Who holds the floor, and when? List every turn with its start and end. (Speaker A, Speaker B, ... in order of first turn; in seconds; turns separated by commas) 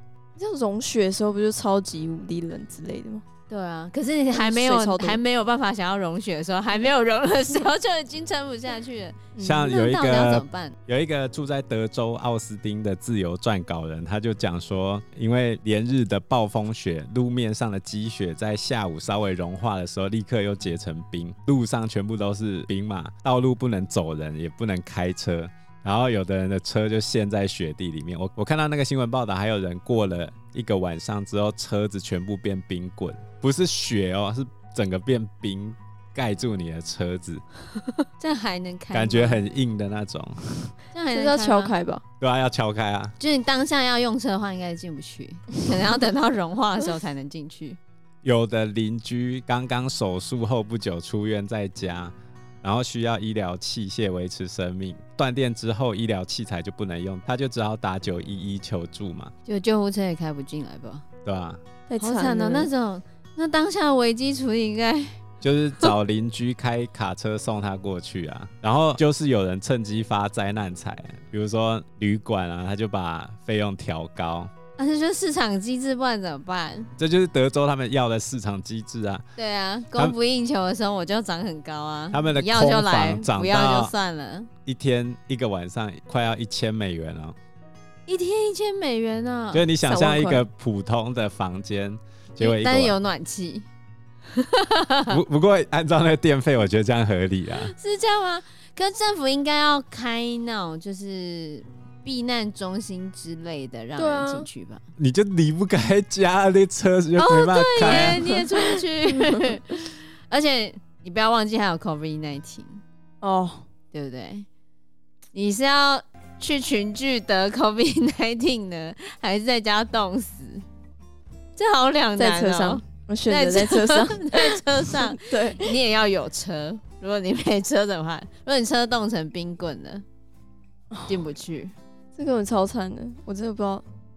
Speaker A: 0.4-3.2, Speaker B: 3.5-10.8, Speaker A: 4.3-5.2, Speaker A: 9.4-9.7, Speaker C: 9.4-37.4, Speaker B: 38.2-39.4, Speaker C: 38.9-40.4, Speaker B: 40.9-41.7, Speaker A: 41.1-42.0, Speaker C: 42.2-43.2, Speaker B: 43.2-47.8, Speaker C: 48.2-59.3, Speaker B: 59.5-61.1, Speaker C: 61.2-61.6, Speaker A: 61.9-62.7, Speaker B: 62.0-65.2, Speaker C: 65.4-74.5, Speaker B: 74.8-76.9, Speaker C: 77.0-79.2, Speaker B: 79.4-84.5, Speaker C: 82.1-83.9, Speaker C: 84.7-87.4, Speaker B: 88.1-89.7, Speaker C: 89.5-93.0, Speaker A: 89.8-90.4, Speaker B: 92.4-93.7, Speaker B: 94.3-95.2, Speaker C: 95.1-97.7, Speaker B: 97.6-104.8, Speaker A: 104.0-104.5, Speaker C: 105.0-108.2, Speaker B: 107.2-112.8, Speaker A: 107.8-109.4, Speaker A: 113.2-113.6, Speaker B: 113.9-114.5, Speaker B: 115.3-120.6, Speaker B: 121.6-130.0, Speaker A: 122.2-125.7, Speaker B: 131.1-131.7, Speaker A: 132.2-133.8